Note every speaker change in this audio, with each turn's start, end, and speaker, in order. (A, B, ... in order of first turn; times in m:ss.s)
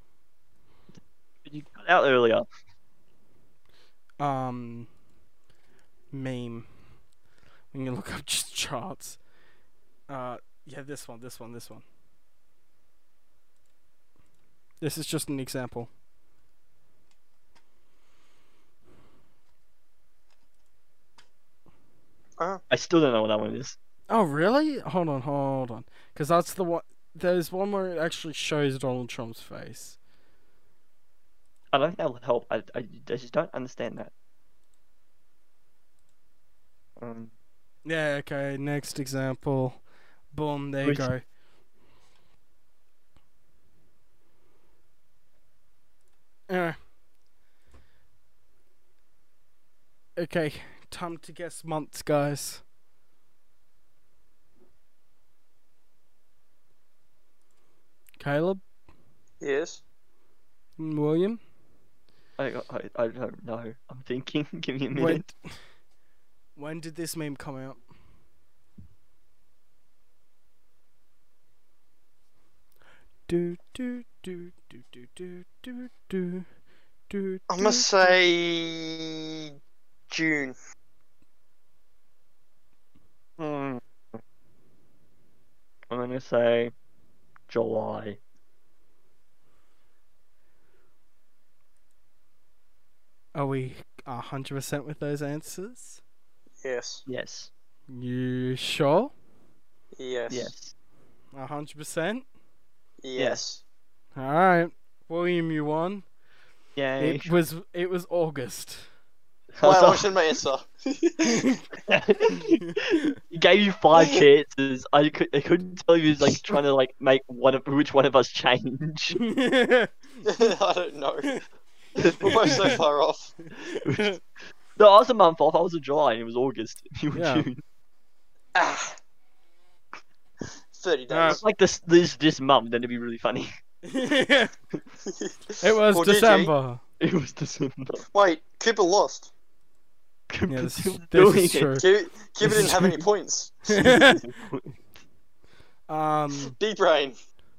0:01.4-0:02.5 A
0:04.2-0:04.9 B
0:06.1-0:06.7 B
0:07.7-0:09.2 B
0:10.1-0:11.8 B
0:14.8-0:15.9 B
0:22.7-0:23.8 A
0:24.1-0:30.0 B
0:31.7-0:34.1 A
0:37.0-0:37.3 A
0:37.8-0:41.2 B
0:40.8-0:41.1 A
0:46.5-0:46.8 B
0:50.2-0:52.6 B
0:58.2-0:58.6 B
0:59.4-0:59.8 C
1:00.8-1:01.4 B
1:02.4-1:05.2 A
1:04.9-1:05.4 B
1:06.6-1:07.8 B
1:13.3-1:16.5 B
1:17.1-1:18.1 B
1:17.5-1:19.4 C
1:20.1-1:20.6 C
1:23.4-1:23.8 A
1:25.9-1:26.7 A
1:27.5-1:28.2 A
1:33.4-1:36.0 B
1:36.6-1:37.0 C
1:37.1-1:37.5 A
1:37.9-1:39.1 B
1:40.0-1:40.5 C
1:40.3-1:40.7 A
1:41.3-1:42.3 B
1:43.0-1:43.6 C
1:43.2-1:43.4 A
1:44.2-1:46.0 B
1:46.8-1:47.3 A
1:47.0-1:48.9 B
1:49.5-1:50.1 A
1:49.6-1:51.5 C
1:51.2-1:51.6 B
1:51.8-1:59.2 A
1:52.5-1:53.1 B
1:59.2-1:59.9 B
2:00.2-2:01.4 C
2:02.0-2:02.7 A
2:02.0-2:03.3 C
2:02.5-2:02.7 B
2:03.6-2:04.1 A
2:03.6-2:04.2 B
2:04.8-2:07.6 A
2:07.1-2:07.5 B
2:08.6-2:09.0 C
2:10.8-2:11.4 C
2:11.1-2:11.4 B
2:11.3-2:13.5 A
2:13.8-2:14.5 B
2:15.1-2:15.4 C
2:15.6-2:16.8 B
2:15.9-2:16.5 C
2:17.0-2:18.0 A
2:18.1-2:19.3 C
2:20.3-2:21.8 A
2:20.5-2:21.8 B
2:21.8-2:24.1 C
2:22.4-2:23.0 A
2:22.5-2:22.8 B
2:23.7-2:24.2 B
2:24.2-2:24.8 A
2:25.9-2:26.6 B
2:26.5-2:27.2 C